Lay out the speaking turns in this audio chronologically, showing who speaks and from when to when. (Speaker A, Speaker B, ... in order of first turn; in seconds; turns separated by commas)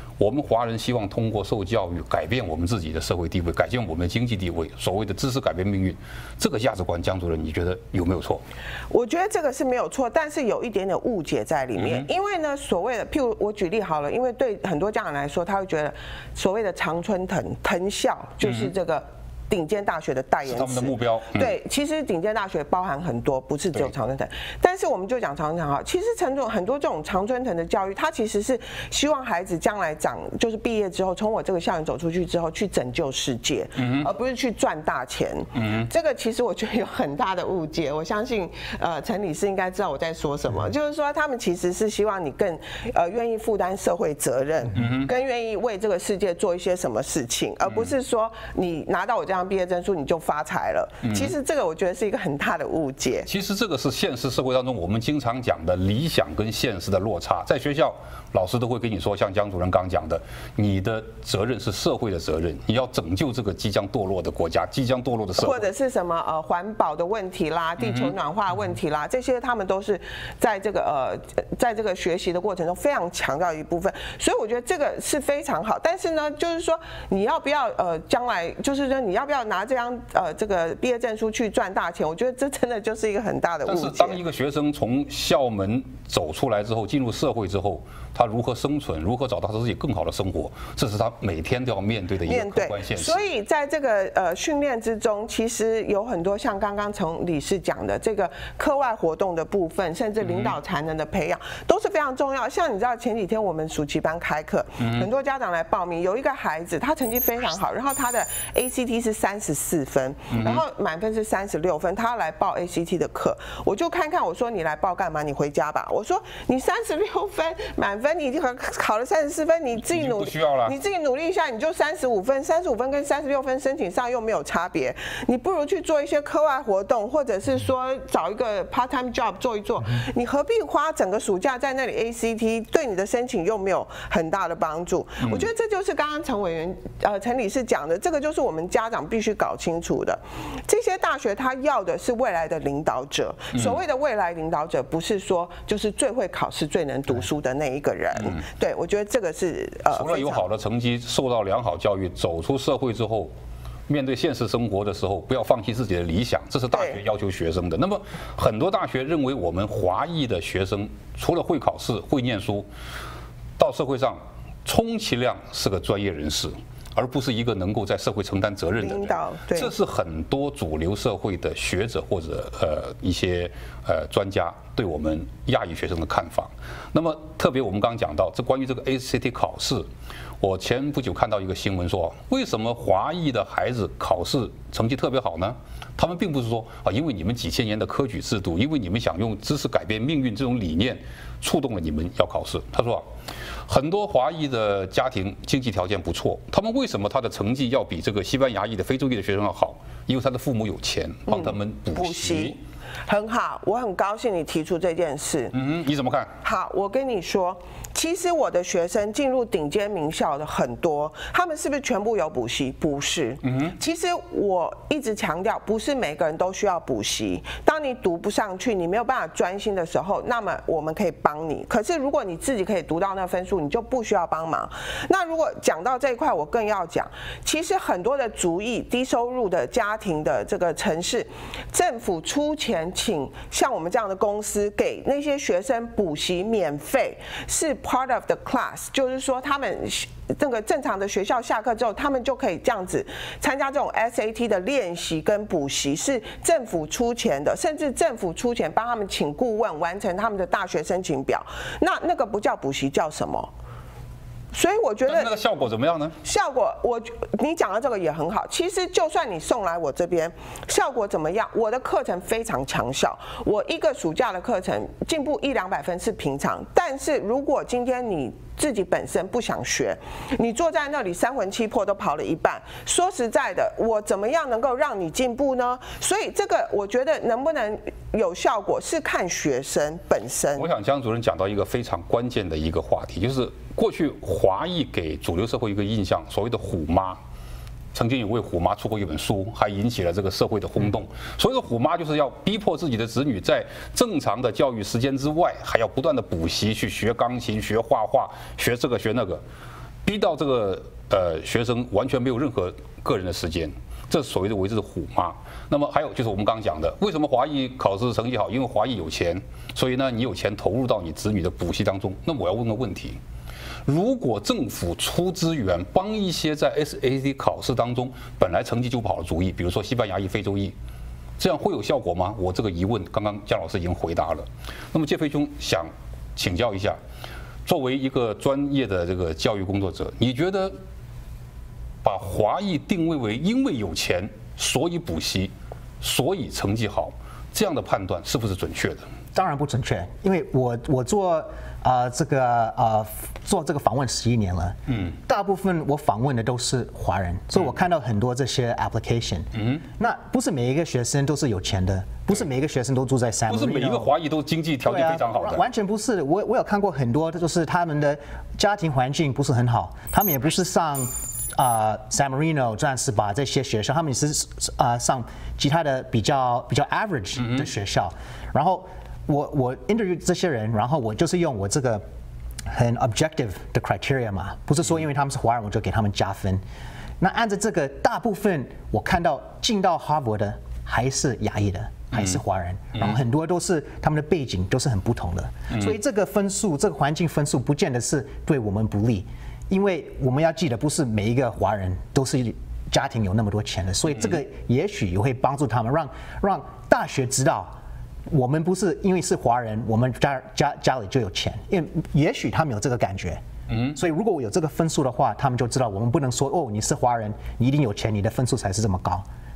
Speaker A: 0.2-8.4, Speaker B: 8.9-53.3, Speaker A: 11.8-12.1, Speaker A: 18.4-18.7, Speaker A: 20.4-21.6, Speaker A: 33.8-34.1, Speaker A: 35.5-35.9, Speaker A: 44.8-45.1, Speaker A: 51.0-51.3, Speaker A: 53.3-65.7, Speaker B: 65.4-84.2, Speaker A: 67.8-68.2, Speaker A: 83.7-93.2, Speaker B: 92.3-150.5, Speaker A: 100.2-100.5, Speaker A: 104.8-105.1, Speaker A: 110.3-110.6, Speaker A: 119.9-120.8, Speaker A: 149.9-153.3, Speaker A: 153.9-162.7, Speaker B: 156.7-157.0, Speaker A: 163.6-179.9, Speaker B: 168.8-169.7, Speaker A: 180.4-193.1, Speaker A: 193.7-202.6, Speaker B: 201.3-202.6, Speaker B: 203.1-205.6, Speaker A: 205.5-206.3, Speaker B: 206.4-253.5, Speaker A: 213.4-213.8, Speaker B: 254.5-255.3, Speaker A: 255.1-256.2, Speaker B: 256.2-280.7, Speaker A: 280.6-287.2, Speaker A: 287.9-299.4, Speaker A: 300.0-313.2, Speaker A: 313.9-320.8, Speaker A: 321.4-327.0, Speaker A: 327.6-330.8, Speaker A: 332.0-339.1, Speaker C: 339.3-354.1, Speaker A: 353.5-355.6, Speaker C: 354.8-372.0, Speaker A: 367.4-367.7, Speaker C: 372.7-376.6, Speaker C: 377.2-397.8, Speaker A: 382.1-382.4, Speaker C: 398.3-409.2